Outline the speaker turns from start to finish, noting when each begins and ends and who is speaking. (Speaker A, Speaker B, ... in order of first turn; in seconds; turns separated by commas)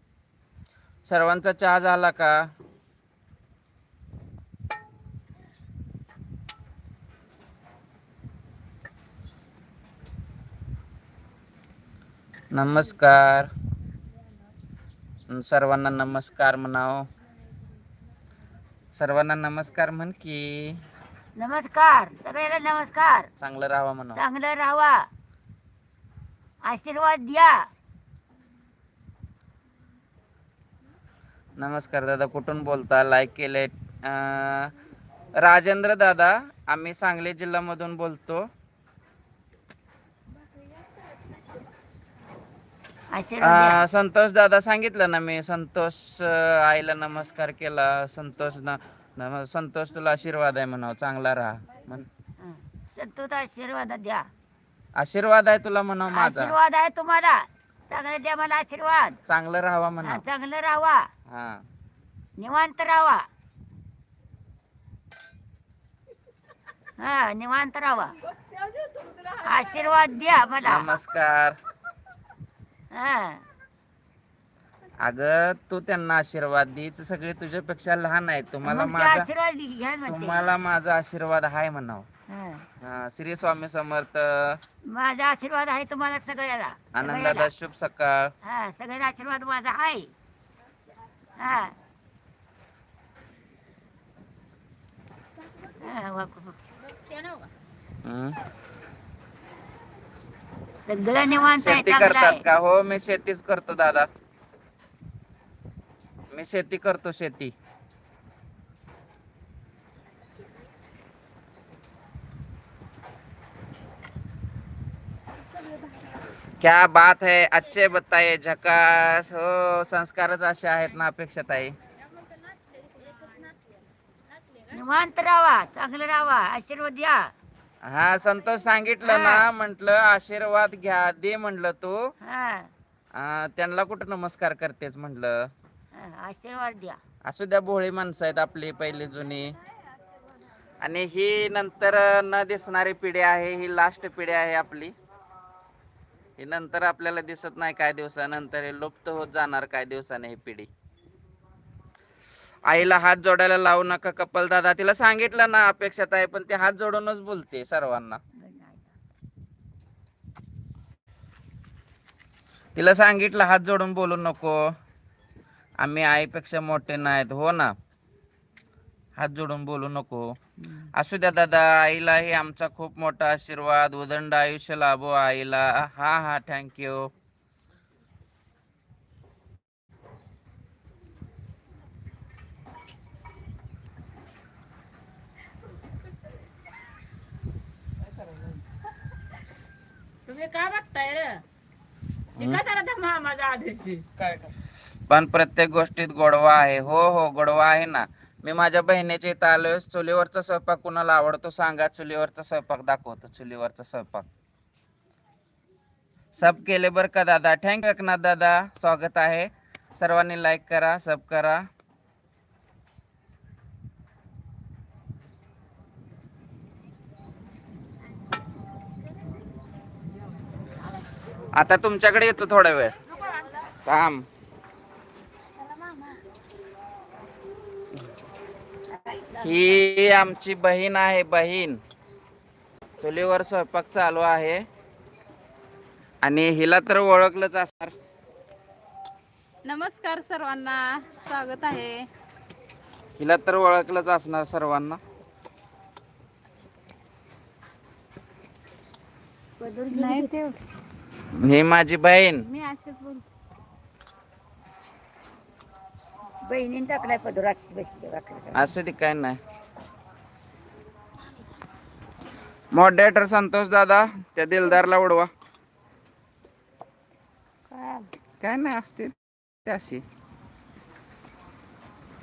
Speaker A: 1.1-2.4, Speaker A: 12.5-13.5, Speaker A: 15.3-17.1, Speaker A: 18.9-20.8, Speaker B: 21.4-23.3, Speaker A: 23.4-24.2, Speaker B: 24.1-25.1, Speaker B: 26.6-27.7, Speaker A: 31.6-34.7, Speaker A: 35.4-38.5, Speaker B: 43.1-43.9, Speaker A: 43.4-52.1, Speaker B: 52.4-54.3, Speaker A: 55.0-56.5, Speaker B: 56.1-59.2, Speaker A: 59.3-60.2, Speaker B: 60.0-61.1, Speaker A: 61.3-61.6, Speaker B: 62.4-63.3, Speaker B: 67.0-68.2, Speaker C: 68.3-69.4, Speaker B: 69.4-70.9, Speaker A: 70.6-71.6, Speaker B: 72.9-73.4, Speaker A: 75.0-79.3, Speaker B: 78.7-80.5, Speaker A: 80.1-82.1, Speaker B: 82.3-82.7, Speaker A: 82.8-84.6, Speaker B: 84.9-87.5, Speaker A: 87.0-88.3, Speaker B: 88.4-90.1, Speaker B: 91.4-91.8, Speaker B: 95.8-96.6, Speaker C: 96.8-97.5, Speaker A: 98.0-98.4, Speaker B: 100.9-102.4, Speaker A: 101.5-104.1, Speaker A: 106.3-107.5, Speaker A: 116.6-121.8, Speaker C: 122.2-123.8, Speaker C: 124.4-124.7, Speaker B: 124.7-127.3, Speaker A: 127.8-132.0, Speaker B: 129.1-129.5, Speaker B: 132.2-132.7, Speaker A: 133.1-135.5, Speaker B: 135.9-137.0, Speaker A: 137.2-139.6, Speaker A: 140.8-144.9, Speaker A: 146.4-150.7, Speaker A: 152.7-158.2, Speaker B: 158.4-158.9, Speaker A: 162.8-164.6, Speaker A: 165.8-167.7, Speaker A: 169.2-170.3, Speaker B: 170.6-170.9, Speaker A: 170.9-177.1, Speaker C: 190.3-191.4, Speaker C: 192.3-194.3, Speaker A: 195.1-204.3, Speaker A: 206.3-211.7, Speaker A: 221.5-223.0, Speaker C: 223.1-223.7, Speaker A: 223.8-224.3, Speaker B: 228.9-229.6, Speaker A: 229.4-231.8, Speaker A: 233.0-234.7, Speaker A: 236.2-237.9, Speaker D: 239.7-242.1, Speaker A: 243.2-245.0, Speaker B: 249.6-250.4, Speaker D: 249.9-250.6, Speaker A: 251.3-252.4, Speaker D: 252.5-253.2, Speaker B: 256.5-258.7, Speaker A: 258.5-259.4, Speaker A: 262.7-265.3, Speaker D: 267.7-268.0, Speaker A: 268.4-270.0